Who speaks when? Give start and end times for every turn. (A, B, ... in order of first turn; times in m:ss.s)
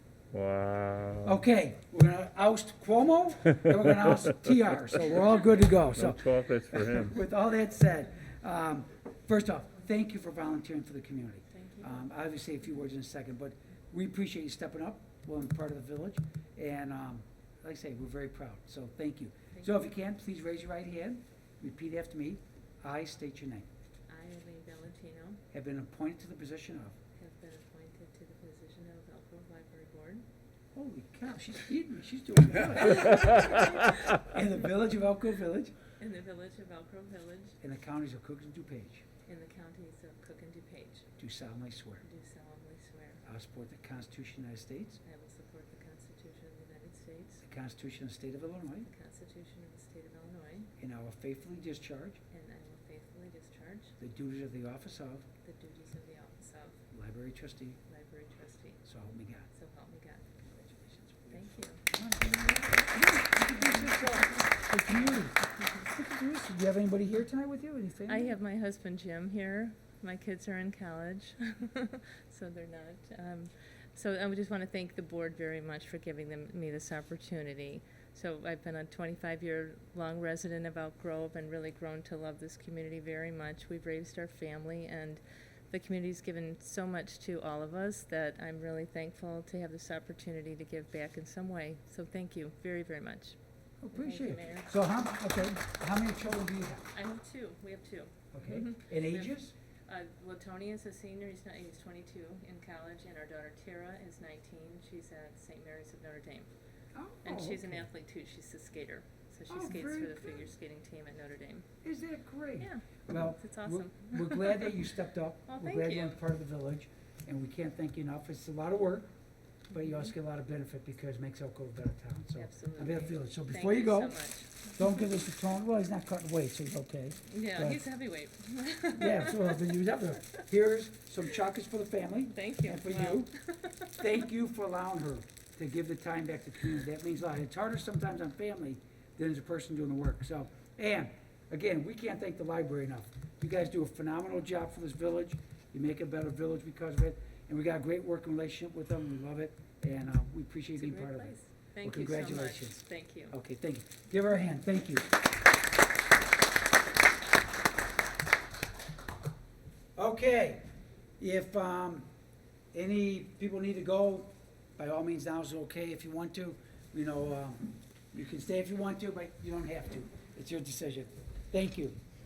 0:00.3-0:01.4 A
0:01.2-0:23.7 B
0:06.0-0:07.1 A
0:11.5-0:12.0 C
0:24.1-0:25.4 C
0:25.5-0:27.0 B
0:27.2-0:30.2 C
0:30.7-0:35.7 B
0:33.1-0:33.7 C
0:36.0-0:37.5 C
0:37.6-0:39.0 B
0:39.2-0:41.0 C
0:41.2-0:42.0 B
0:42.0-0:43.2 C
0:43.2-0:45.0 B
0:45.0-0:47.4 C
0:47.4-0:48.9 B
0:48.9-0:50.7 C
0:50.8-0:52.2 B
0:52.3-0:53.9 C
0:54.0-0:55.2 B
0:55.4-0:56.8 C
0:56.9-0:57.8 B
0:57.9-0:58.8 C
0:58.8-0:59.5 B
0:59.5-1:00.3 C
1:00.4-1:08.4 B
1:01.3-1:01.8 C
1:08.1-1:33.4 C
1:33.8-1:36.9 B
1:34.0-1:34.8 C
1:36.9-1:39.3 C
1:38.3-1:39.5 B
1:39.9-1:46.5 C
1:46.9-1:47.8 B
1:47.2-1:51.6 C
1:49.5-1:50.4 B
1:51.8-1:59.1 B
1:52.6-1:54.8 C
1:55.5-1:56.2 C
1:59.7-2:04.2 B
2:02.3-2:04.5 C
2:04.7-2:07.8 B
2:07.3-2:09.7 C
2:09.0-2:13.3 B
2:12.3-2:13.9 C
2:14.0-2:35.1 B
2:30.8-2:33.4 C
2:40.0-2:40.6 B
2:41.2-2:42.0 B
2:42.7-2:52.0 B